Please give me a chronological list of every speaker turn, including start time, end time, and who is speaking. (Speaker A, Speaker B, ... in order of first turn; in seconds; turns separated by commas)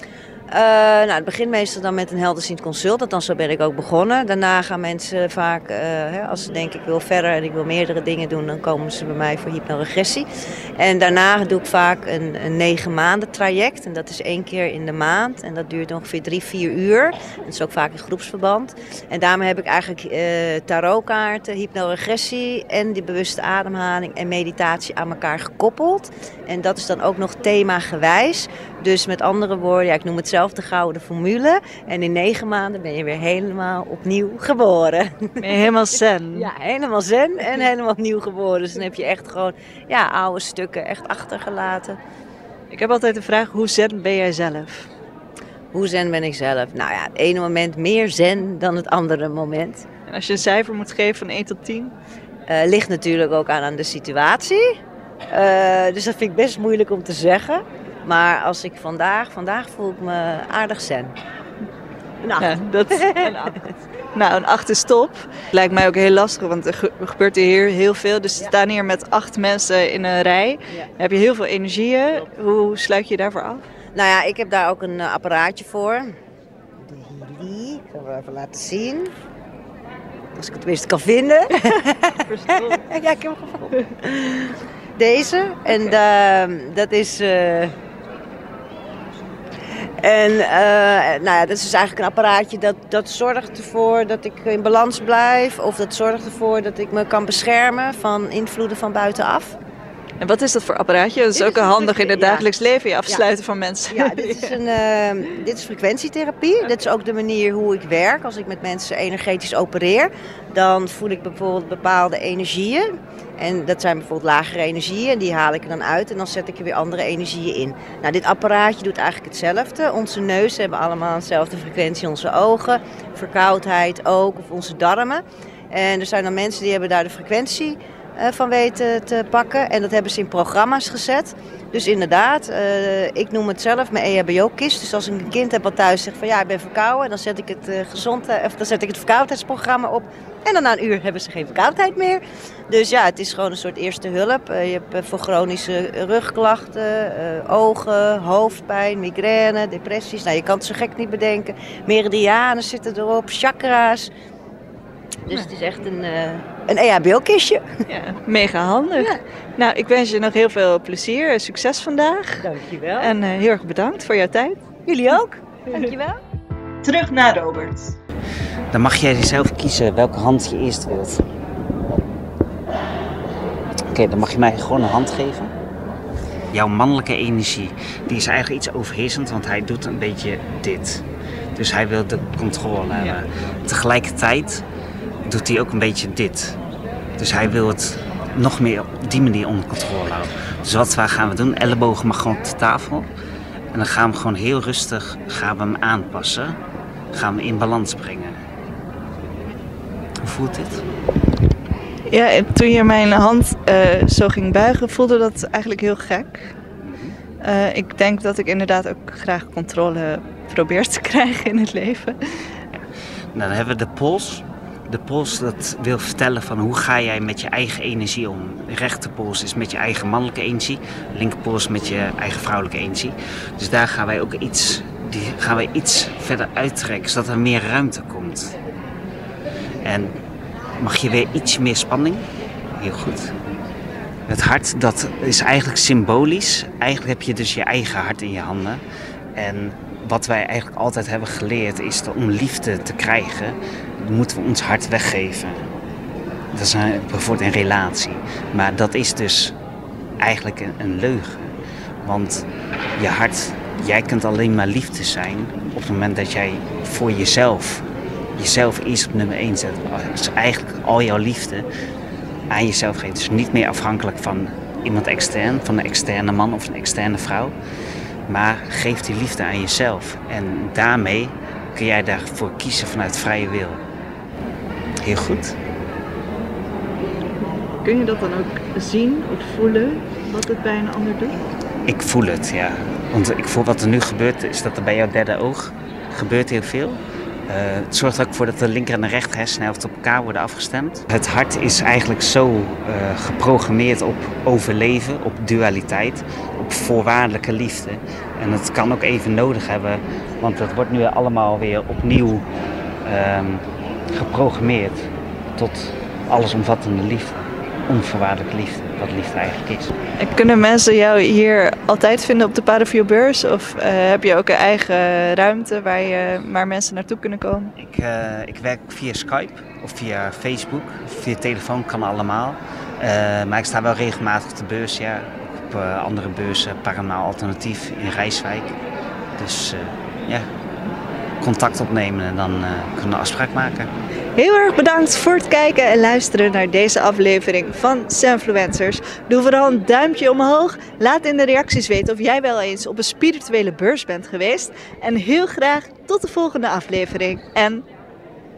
Speaker A: 0.5-10.3, Speaker A: 10.8-35.5, Speaker B: 35.4-36.5, Speaker A: 36.3-42.0, Speaker B: 42.7-44.9, Speaker A: 45.7-49.9, Speaker B: 50.1-51.9, Speaker A: 52.5-54.8, Speaker A: 55.3-61.1, Speaker A: 62.2-63.6, Speaker B: 62.4-63.6, Speaker B: 64.1-73.7, Speaker A: 73.9-76.2, Speaker A: 76.8-79.1, Speaker A: 80.3-87.7, Speaker B: 82.1-82.8, Speaker B: 85.7-85.9, Speaker A: 90.0-99.6, Speaker B: 100.2-104.6, Speaker A: 101.3-102.5, Speaker A: 103.9-154.1, Speaker A: 155.2-157.7, Speaker B: 157.9-164.6, Speaker A: 162.4-163.1, Speaker A: 164.8-166.2, Speaker B: 166.8-168.0, Speaker C: 168.7-171.2, Speaker C: 173.9-175.5, Speaker C: 176.5-181.0, Speaker C: 181.6-184.6, Speaker B: 182.9-183.2, Speaker C: 185.2-186.6, Speaker C: 187.2-193.1, Speaker C: 193.7-196.6, Speaker C: 197.1-198.4, Speaker C: 200.2-200.8, Speaker B: 202.1-206.5, Speaker C: 206.8-207.2, Speaker B: 207.4-212.4, Speaker C: 213.3-228.5, Speaker C: 229.8-230.2, Speaker C: 230.8-232.2, Speaker C: 232.8-233.3, Speaker C: 234.3-238.8, Speaker C: 239.3-245.6, Speaker C: 246.5-249.5, Speaker C: 250.2-257.8, Speaker C: 258.4-261.7, Speaker C: 262.5-267.5, Speaker C: 268.3-273.8, Speaker C: 275.0-275.6, Speaker B: 277.8-281.4, Speaker C: 281.9-302.4, Speaker C: 303.0-309.9, Speaker B: 310.2-317.7, Speaker C: 317.8-328.8, Speaker C: 329.4-330.5, Speaker C: 331.4-333.9, Speaker B: 334.4-347.9